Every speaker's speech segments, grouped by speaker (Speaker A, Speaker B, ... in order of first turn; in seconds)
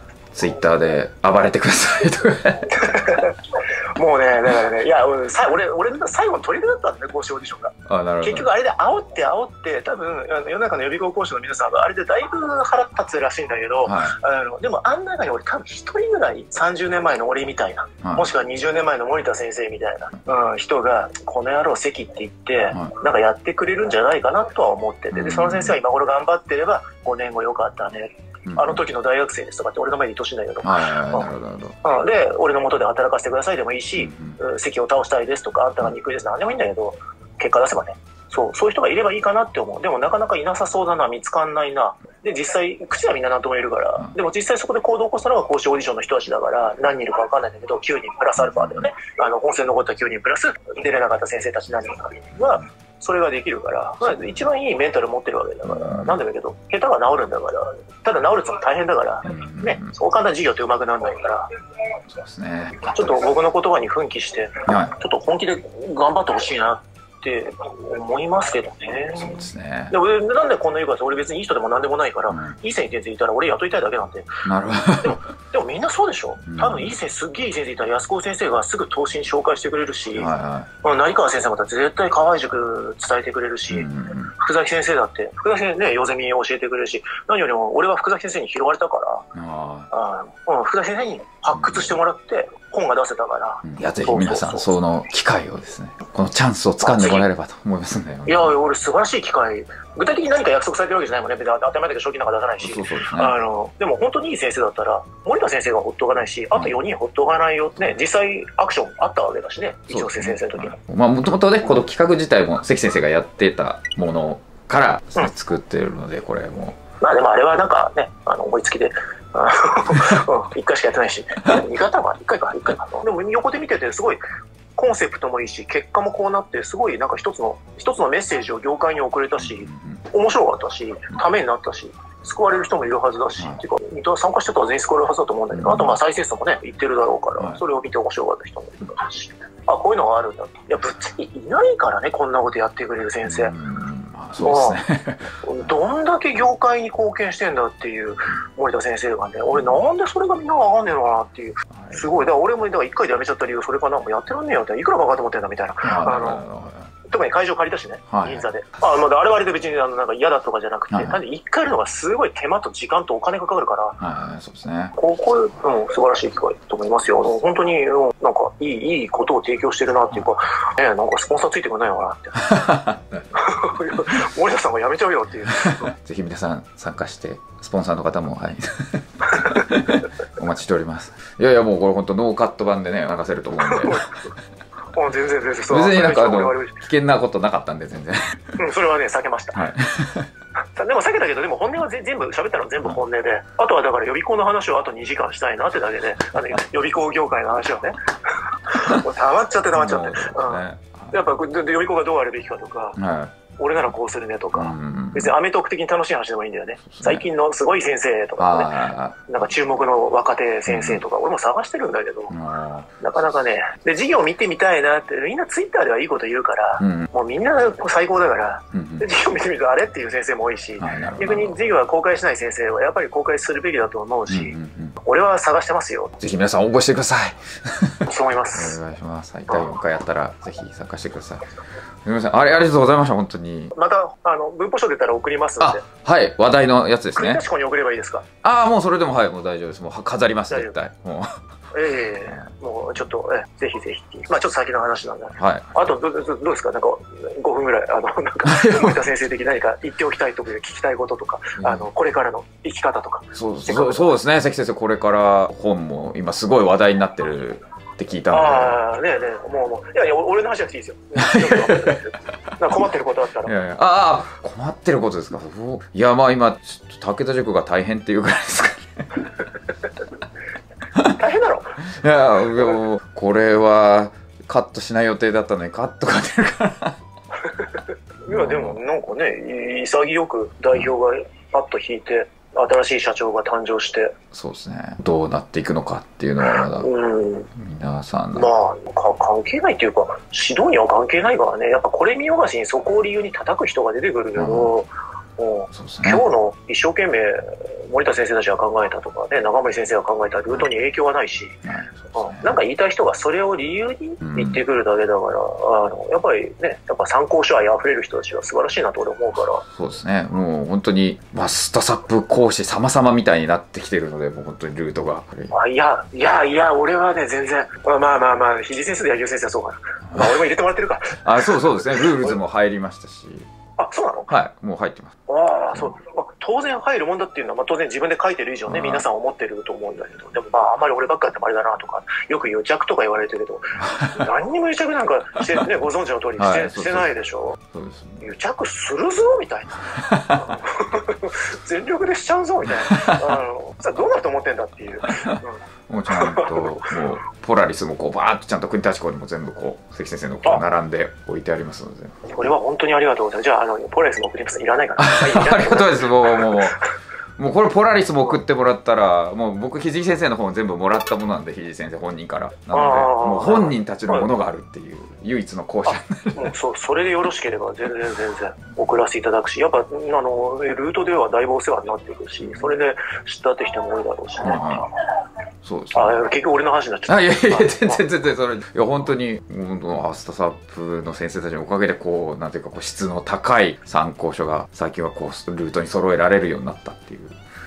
Speaker A: 0.3-2.7, 7.9-8.5, 13.8-14.2, 18.0-18.3, 25.1-25.8, 28.5-28.8, 30.6-31.7, 34.0-34.4, 48.4-48.9, 54.0-54.4, 55.6-56.2, 59.2-59.9, 62.1-63.2, 64.7-65.0, 69.2-69.9, 72.3-72.6, 74.4-75.2, 76.4-76.9, 80.1-80.7, 83.7-84.3, 89.3-89.9, 91.5-92.0, 93.6-98.5, 102.6-103.3, 109.9-116.8, 129.4-130.0, 135.5-136.0, 143.2-145.7, 151.7-152.3, 155.8-156.9, 158.1-158.5, 160.9-161.2, 164.0-164.9, 172.4-173.3, 175.6-184.3, 185.7-188.6, 189.5-190.3, 198.7-199.0, 199.7-201.2, 202.9-203.3, 204.5-205.3, 206.8-207.2, 208.4-209.3, 210.7-211.0, 212.3-213.0, 216.8-217.1, 218.7-219.1, 220.8-221.6, 224.3-225.0, 226.2-233.7, 235.6-237.4, 238.4-241.4, 242.2-242.5, 245.4-245.9, 248.4-249.0, 251.6-251.9, 253.3-258.8, 261.2-262.0, 263.4-269.3, 271.8-277.0, 278.3-278.8, 284.3-286.9, 287.5-288.5, 294.4-294.7, 295.7-296.2, 301.6-302.6, 304.2-304.6, 309.6-315.6, 320.1-320.4, 321.2-323.5, 324.3-325.1, 328.7-329.0, 333.8-334.2, 336.4-338.3, 339.9-340.5, 342.8-343.3, 345.1-352.2, 355.0-356.8, 357.4-366.5, 374.4-374.9, 375.6-376.2, 377.1-387.4
Speaker B: 2.7-31.3, 31.8-61.5, 62.8-74.4, 75.0-80.3, 80.8-89.2, 89.9-94.7, 96.8-97.3, 98.2-110.8, 117.0-124.2, 124.8-143.5, 144.4-144.8, 145.4-156.4, 157.1-164.0, 164.9-172.4, 173.3-175.9, 179.3-179.8, 183.6-184.3, 184.9-186.8, 188.6-189.6, 190.7-203.0, 203.6-208.7, 209.3-212.3, 213.0-226.1, 228.0-228.8, 229.5-229.7, 233.7-235.8, 237.1-238.2, 241.7-254.2, 258.3-263.5, 271.0-271.8, 277.4-284.1, 286.4-287.5, 288.3-301.6, 302.1-309.6, 315.5-322.4, 323.8-324.3, 325.3-337.6, 338.2-339.8, 340.3-347.0, 352.3-356.7, 362.7-364.3, 365.9-374.9, 375.9-378.0